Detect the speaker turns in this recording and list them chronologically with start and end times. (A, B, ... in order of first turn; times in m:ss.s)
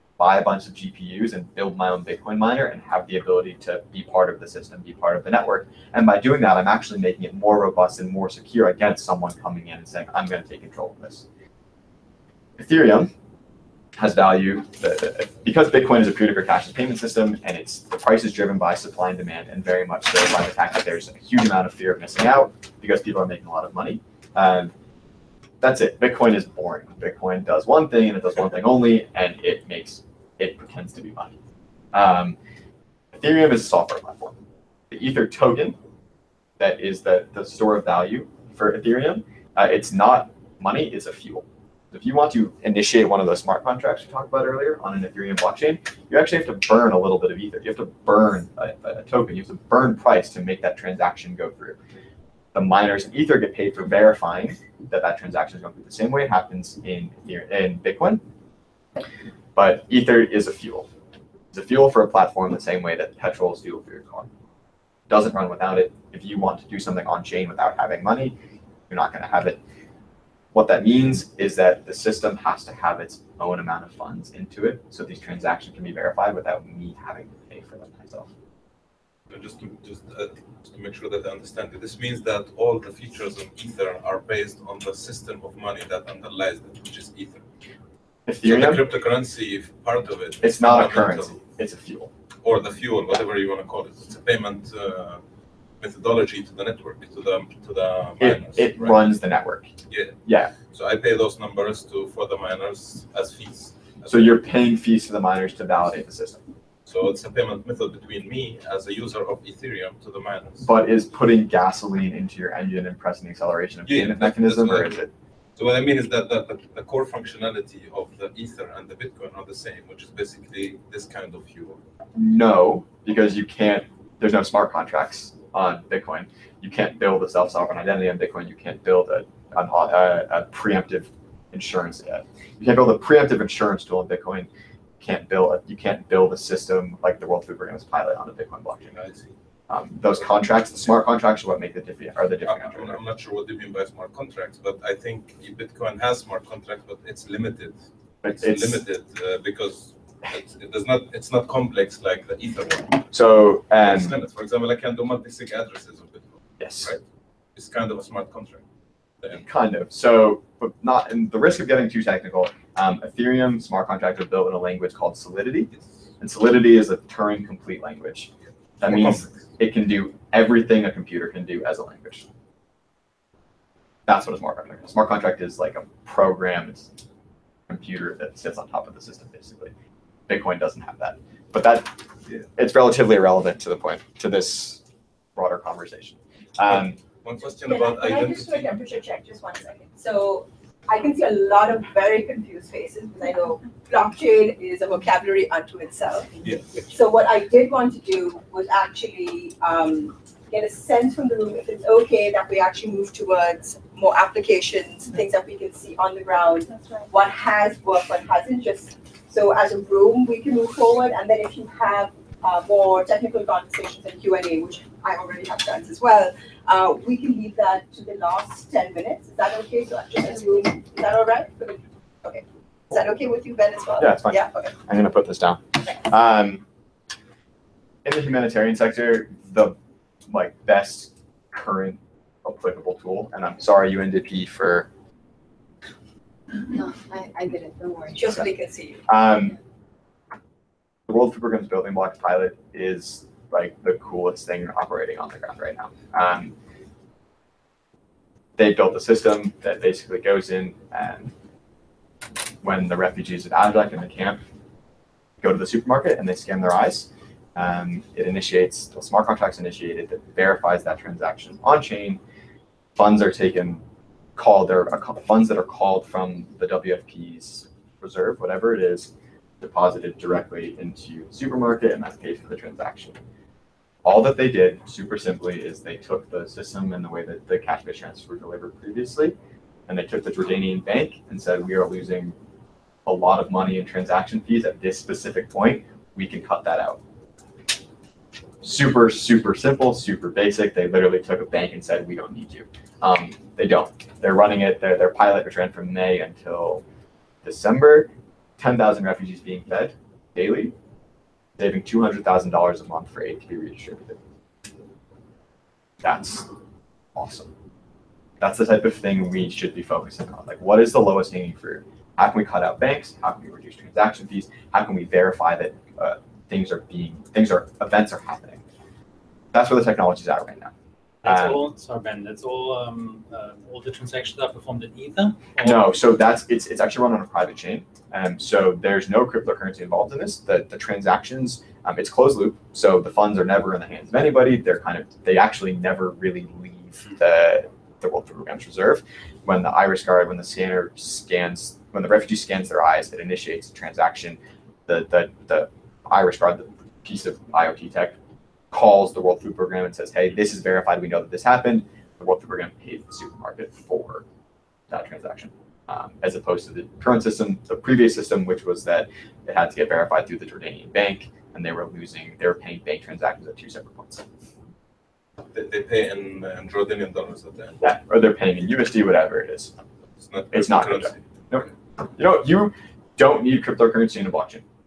0:00.2-0:11.3 A
0:12.6-0:13.1 A
0:14.0-0:24.7 A
0:25.6-0:31.4 A
0:31.9-0:32.4 A
0:33.1-0:34.4 A
0:34.9-0:35.8 A
0:36.6-0:51.8 A
0:52.5-0:58.2 A
0:59.6-1:00.9 A
1:01.5-1:04.3 A
1:05.1-1:08.4 A
1:08.9-1:09.6 A
1:10.5-1:18.3 A
1:19.3-1:27.4 B
1:28.3-1:28.9 A
1:28.4-1:31.4 B
1:30.4-1:32.1 A
1:32.4-1:35.2 B
1:35.8-1:39.2 B
1:38.2-1:39.7 A
1:39.9-1:44.4 B
1:40.2-1:40.5 A
1:44.1-1:46.4 A
1:46.9-1:50.7 B
1:50.6-1:55.1 A
1:53.9-1:54.9 B
1:55.6-2:01.8 B
2:02.1-2:14.5 A
2:15.0-2:19.0 A
2:18.9-2:19.3 B
2:19.7-2:23.0 A
2:22.4-2:33.0 B
2:28.2-2:28.8 A
2:33.1-2:34.2 A
2:33.8-2:37.0 B
2:36.6-2:37.0 A
2:37.6-2:38.6 B
2:39.3-2:48.3 A
2:48.8-2:52.3 A
2:48.8-2:49.3 B
2:54.1-2:56.9 A
2:57.7-2:59.7 A
3:00.3-3:02.0 A
3:02.6-3:04.8 A
3:05.4-3:07.0 A
3:06.7-3:09.0 B
3:07.7-3:16.3 C
3:16.4-3:16.8 B
3:16.9-3:44.7 C
3:26.6-3:27.1 D
3:44.0-3:46.6 A
3:48.0-3:49.8 A
3:50.3-3:54.9 A
3:56.7-3:58.3 D
3:58.1-3:59.0 C
3:59.1-3:59.6 A
4:01.1-4:06.6 A
4:08.6-4:11.3 A
4:12.6-4:14.4 A
4:15.4-4:22.2 A
4:23.0-4:23.8 A
4:24.4-4:33.2 A
4:34.0-4:39.4 A
4:39.9-4:42.4 A
4:43.0-4:47.0 A
4:48.6-4:56.8 A
4:57.4-5:00.7 A
5:01.6-5:04.2 A
5:06.0-5:06.5 A
5:07.2-5:07.5 A
5:08.4-5:18.6 A
5:19.5-5:20.7 A
5:21.2-5:21.7 A
5:21.2-5:25.9 E
5:25.6-5:48.2 A
5:48.7-5:54.2 A
5:54.9-6:04.2 A
6:05.5-6:07.8 B
6:07.8-6:09.7 A
6:10.2-6:11.7 B
6:10.5-6:14.6 A